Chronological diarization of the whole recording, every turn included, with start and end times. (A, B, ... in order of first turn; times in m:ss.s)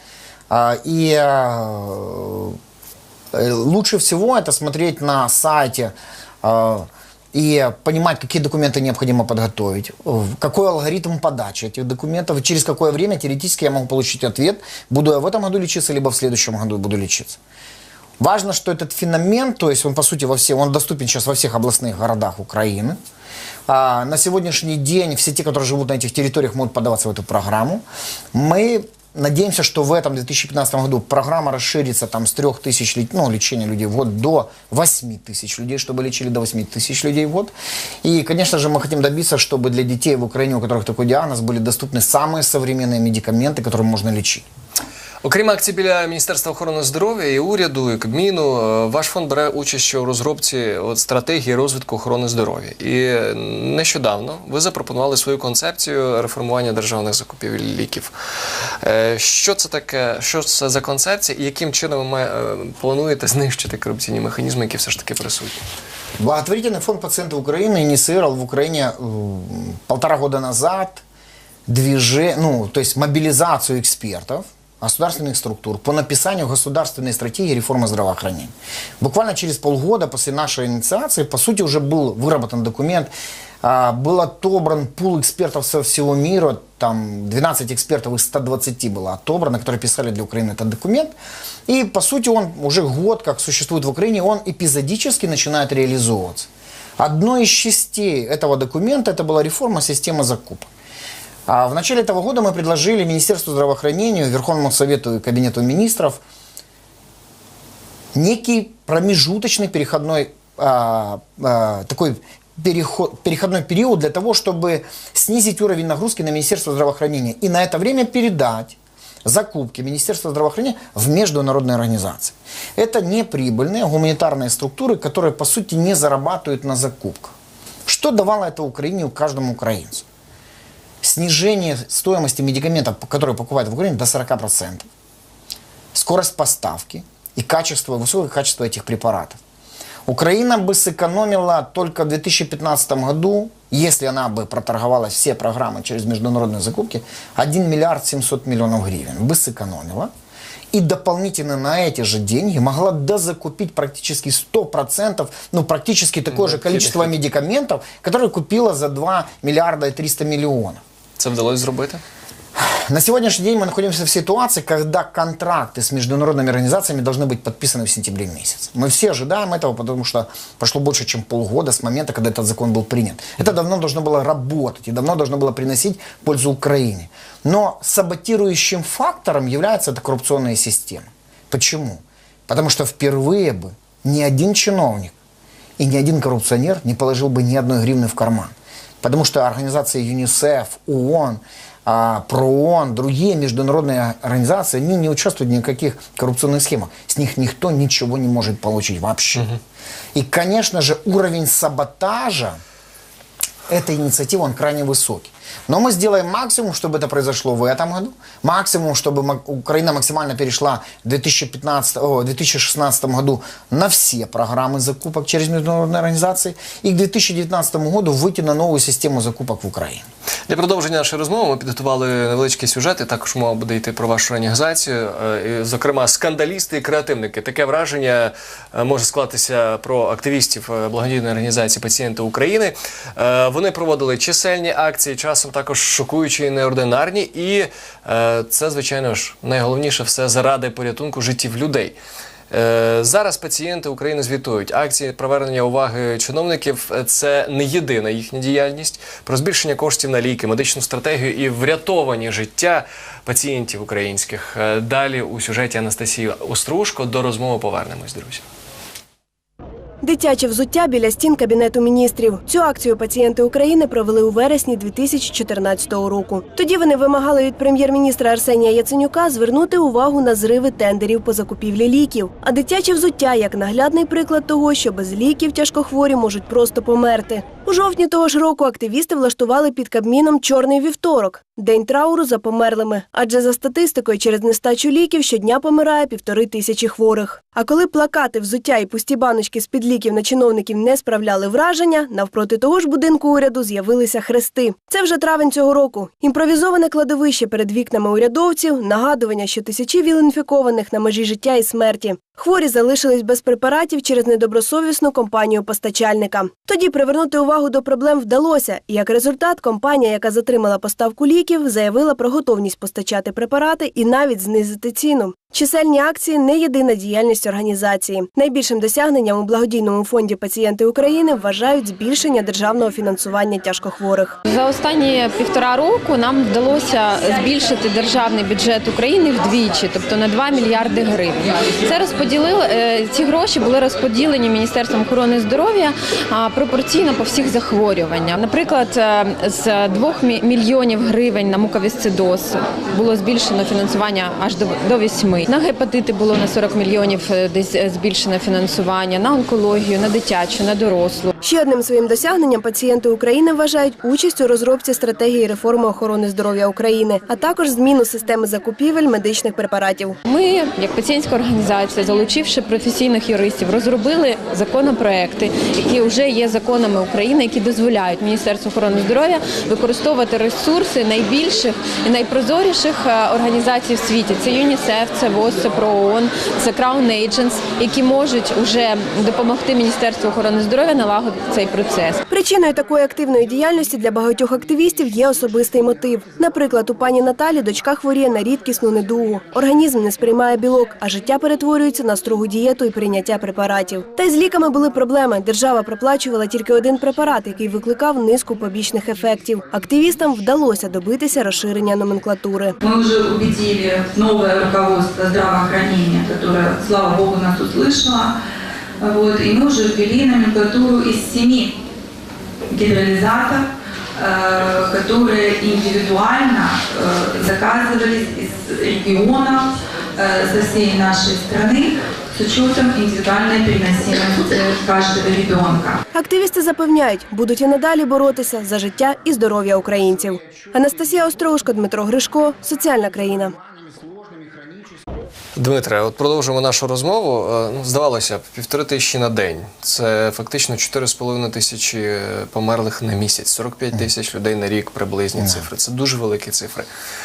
0:00.5-0:02.6 A
0:03.3-0:17.4 A
0:18.2-0:23.0 A
0:23.7-0:37.5 A
0:38.0-0:44.4 A
0:45.2-0:58.1 B
0:58.8-1:05.6 B
1:06.2-1:11.0 A
1:11.7-1:23.1 A
1:23.6-1:31.1 A
1:31.7-1:40.7 A
1:41.5-1:46.2 A
1:48.1-2:07.4 A
2:07.9-2:10.0 A
2:11.0-2:14.9 A
2:15.9-2:19.4 A
2:20.1-2:30.1 A
2:30.7-2:40.8 A
2:36.3-2:37.1 B
2:41.2-2:42.0 B
2:42.6-3:05.1 A
3:05.8-3:19.5 A
3:20.2-3:22.6 A
3:23.7-3:40.1 A
3:40.5-4:02.0 B
4:02.5-4:18.4 B
4:20.0-5:24.4 C
5:24.5-5:51.3 D
5:51.4-6:00.2 C
6:00.2-6:22.2 D
6:22.3-6:42.8 C
6:42.8-6:48.3 E
6:49.0-6:51.8 E
6:52.7-6:53.6 E
6:54.2-7:06.0 E
7:06.1-7:13.5 C
7:14.0-7:14.9 A
7:15.6-7:26.9 B
7:25.4-7:25.6 A